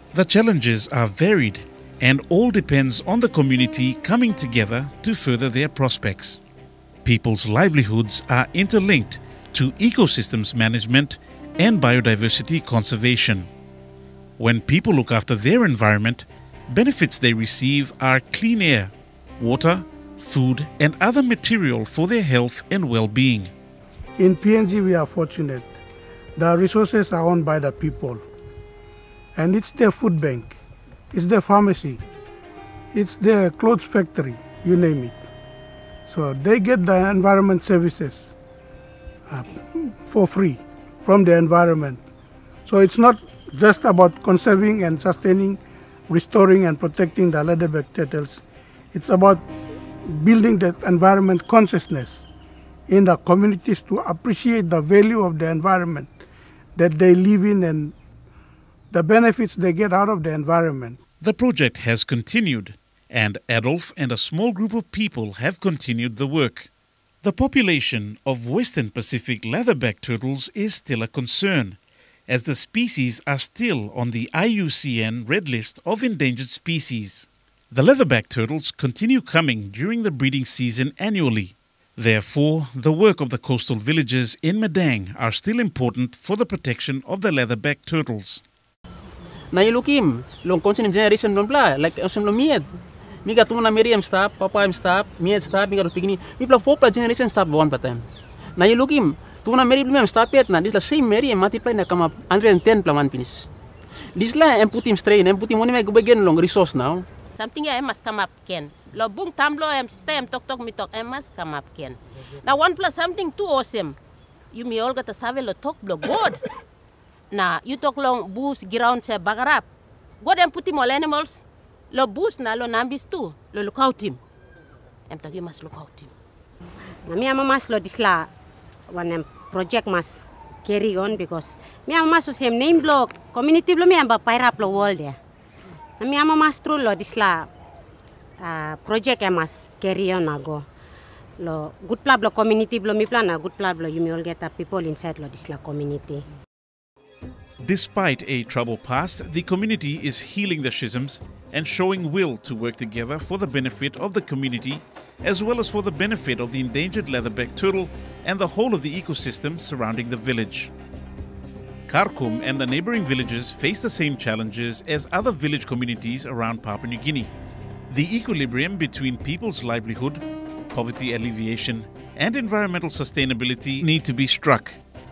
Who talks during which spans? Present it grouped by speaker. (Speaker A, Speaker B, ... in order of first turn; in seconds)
Speaker A: 0.1-6.4, 7.0-13.5, 14.4-23.5, 61.2-66.7, 67.2-71.8, 72.3-88.4, 147.6-160.7, 161.9-167.3, 167.9-174.8
Speaker B: 24.2-25.7, 26.4-28.2, 29.4-30.6, 31.1-32.0, 32.9-35.2, 36.1-38.3, 39.3-42.0, 42.7-49.5, 50.0-52.2, 52.9-56.2, 56.8-58.0, 58.9-61.0
Speaker C: 89.5-92.7, 93.2-103.5, 104.2-107.1
Speaker D: 107.4-114.0, 114.5-116.4, 117.3-119.7, 120.2-124.2, 125.1-126.1
Speaker E: 127.1-128.3, 128.9-135.2, 136.0-137.5, 138.4-140.7, 141.4-146.2